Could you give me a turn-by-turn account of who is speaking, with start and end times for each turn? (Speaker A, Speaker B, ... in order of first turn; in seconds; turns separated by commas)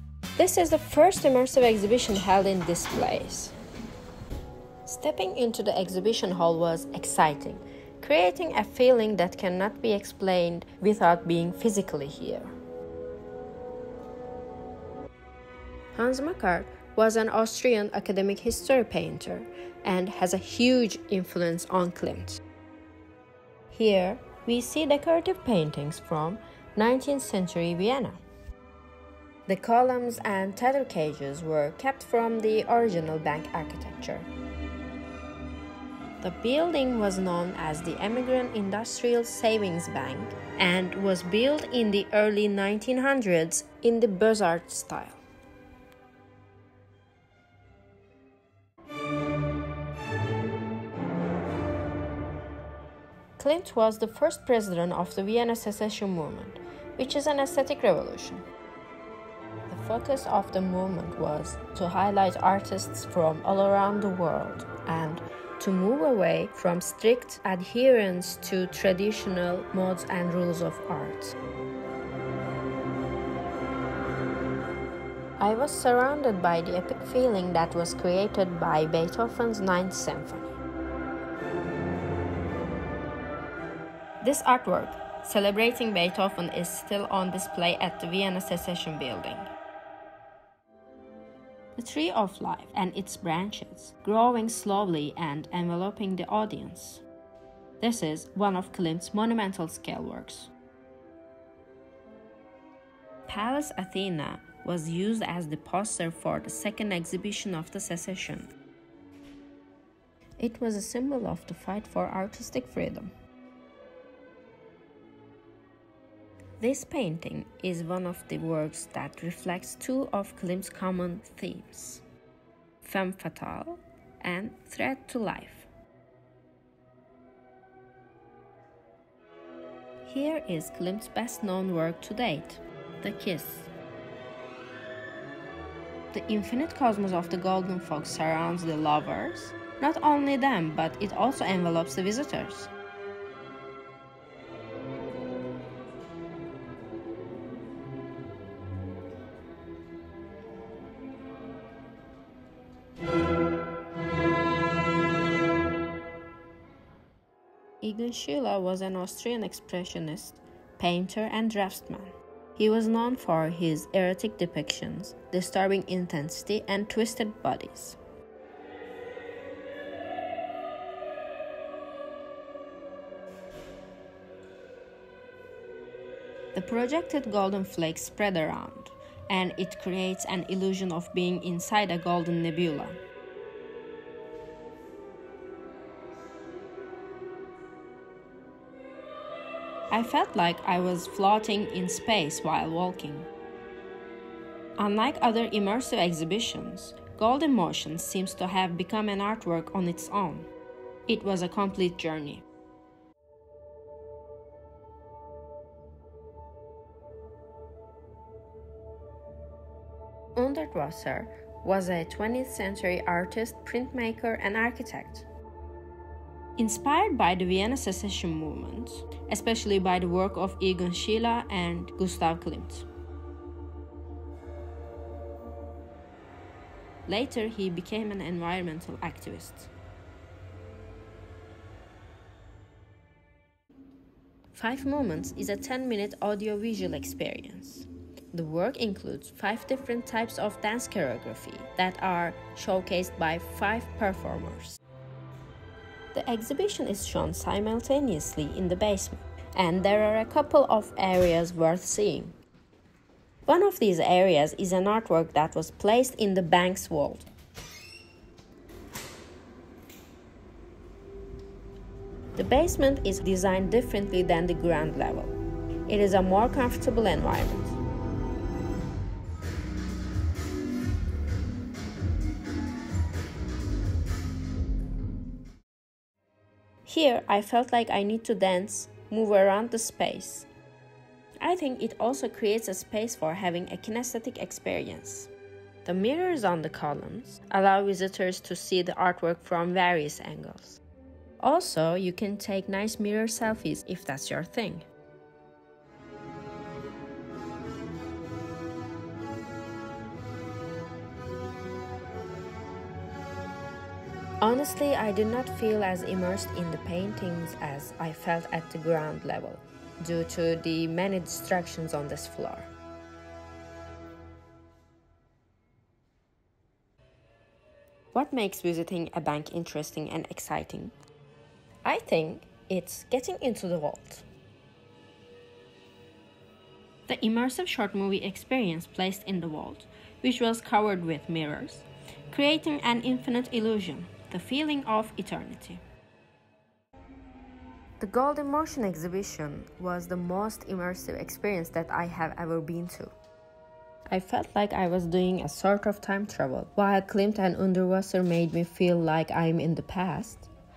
Speaker A: 0.4-3.5, Speaker A: 4.8-12.5, Speaker A: 15.9-22.4, Speaker A: 23.7-28.2, Speaker A: 29.5-34.3, Speaker A: 36.2-45.2, Speaker A: 53.4-58.4, Speaker A: 59.7-71.3, Speaker A: 75.4-80.5, Speaker A: 84.2-89.5, Speaker A: 91.8-97.0, Speaker A: 97.8-100.5, Speaker A: 103.3-108.5, Speaker A: 110.4-113.1, Speaker A: 116.6-122.0, Speaker A: 122.8-125.7, Speaker A: 130.0-133.7, Speaker A: 136.1-142.7, Speaker A: 157.8-168.0, Speaker A: 176.5-183.0, Speaker A: 189.9-193.3, Speaker A: 194.8-200.5, Speaker A: 201.1-202.4, Speaker A: 210.3-215.3, Speaker A: 216.6-222.9, Speaker A: 227.1-229.7, Speaker A: 234.5-244.8, Speaker A: 246.1-252.4, Speaker A: 253.4-257.3, Speaker A: 262.3-265.3, Speaker A: 265.9-267.8, Speaker A: 276.9-280.5, Speaker A: 281.4-285.3, Speaker A: 285.8-290.8, Speaker A: 291.4-294.9, Speaker A: 304.4-312.7, Speaker A: 318.1-320.9, Speaker A: 321.8-324.2, Speaker A: 327.1-335.8, Speaker A: 338.0-343.1, Speaker A: 344.1-350.5